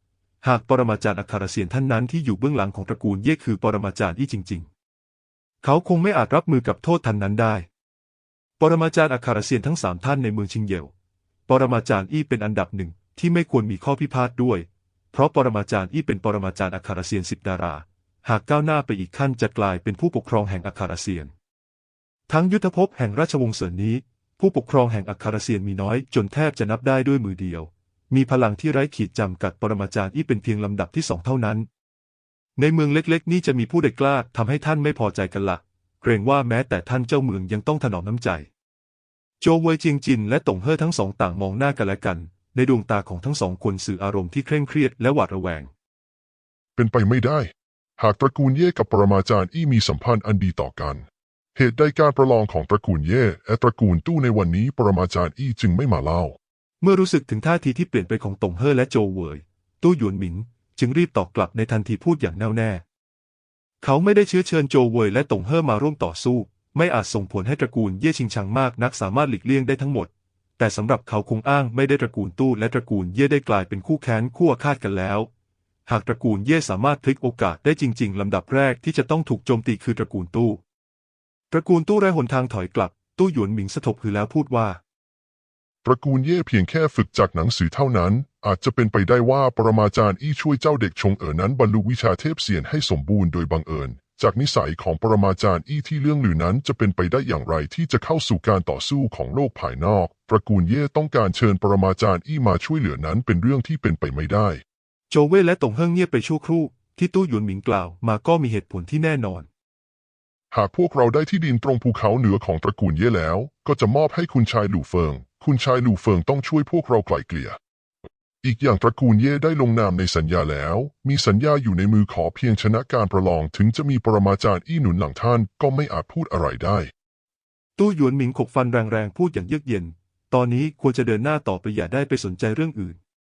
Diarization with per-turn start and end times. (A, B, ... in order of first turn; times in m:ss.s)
0:00.4-0:04.7 A
0:05.6-0:07.7 A
0:08.6-0:10.9 A
0:11.5-0:21.3 A
0:22.3-0:31.7 A
0:32.6-0:38.5 A
0:39.4-0:45.7 A
0:46.8-0:51.0 B
0:51.6-0:56.4 B
0:56.8-1:02.8 A
1:03.8-1:15.3 A
1:15.9-1:20.6 A
1:21.5-1:24.8 A
1:25.8-1:44.6 B
1:45.1-1:49.5 A
1:50.5-1:57.6 B
1:58.4-2:06.9 B
2:07.8-2:13.0 A